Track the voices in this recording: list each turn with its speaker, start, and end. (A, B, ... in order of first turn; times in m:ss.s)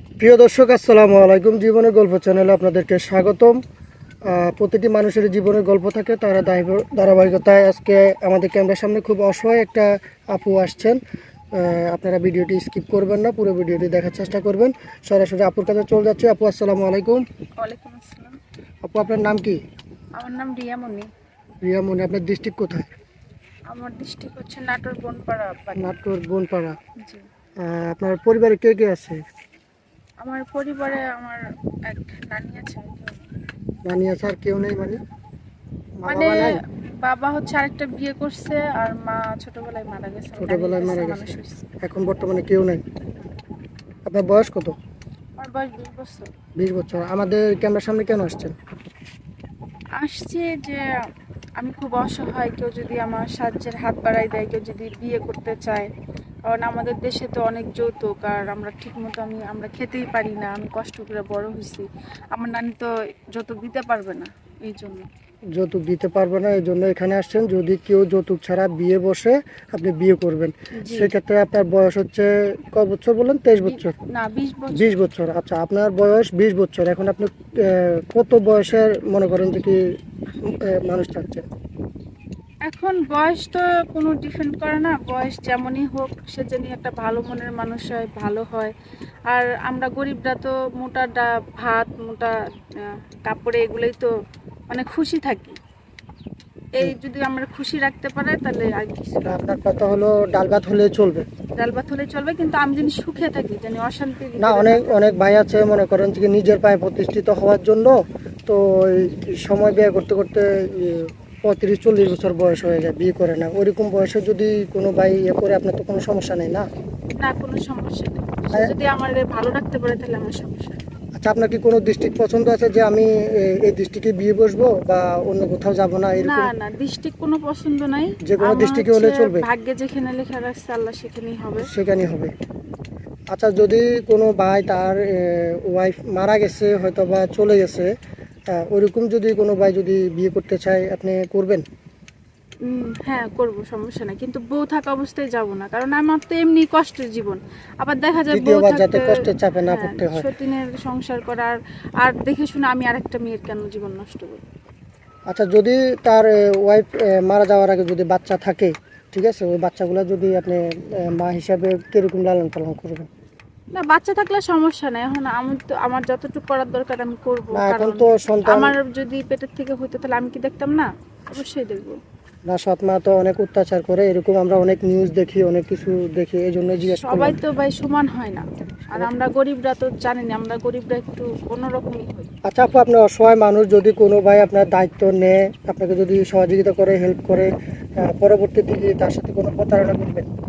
0:00.2-0:03.6 A
0:04.3-0:11.0 A
0:11.5-0:17.2 A
0:17.6-0:18.4 B
0:18.8-0:19.6 A
0:20.2-0:21.1 B
0:21.6-0:22.9 A
0:23.7-0:25.9 B
0:25.8-0:26.8 A
0:27.6-0:29.2 A
0:30.2-0:33.3 B
0:33.8-0:35.0 A
0:36.0-0:36.5 A
0:36.1-0:36.5 B
0:37.0-0:41.6 B
0:40.4-0:42.8 A
0:44.0-0:44.7 A
0:45.4-0:46.3 B
0:46.6-0:48.5 A
0:50.0-0:50.8 B
0:51.6-0:55.9 B
0:56.4-1:05.1 B
1:05.5-1:13.9 A
1:10.8-1:11.1 B
1:13.6-1:15.0 B
1:14.7-1:19.8 A
1:20.7-1:21.4 A
1:22.6-1:28.7 B
1:29.3-1:34.1 B
1:34.7-1:35.6 B
1:36.8-1:39.3 B
1:39.2-1:41.2 A
1:41.6-1:45.2 B
1:44.4-1:47.9 A
1:48.4-1:56.7 A
1:57.1-2:00.8 B
2:01.2-2:06.5 A
2:06.2-2:11.7 B
2:08.2-2:09.5 A
2:11.6-2:12.3 A
2:13.3-2:17.9 A
2:18.5-2:21.6 A
2:22.6-2:34.4 B
2:28.3-2:30.3 A
2:35.3-2:43.1 A
2:43.7-2:52.0 B
2:47.5-2:48.8 A
2:52.5-2:57.4 A
2:56.9-3:02.3 B
3:02.5-3:07.5 A
3:08.0-3:10.3 A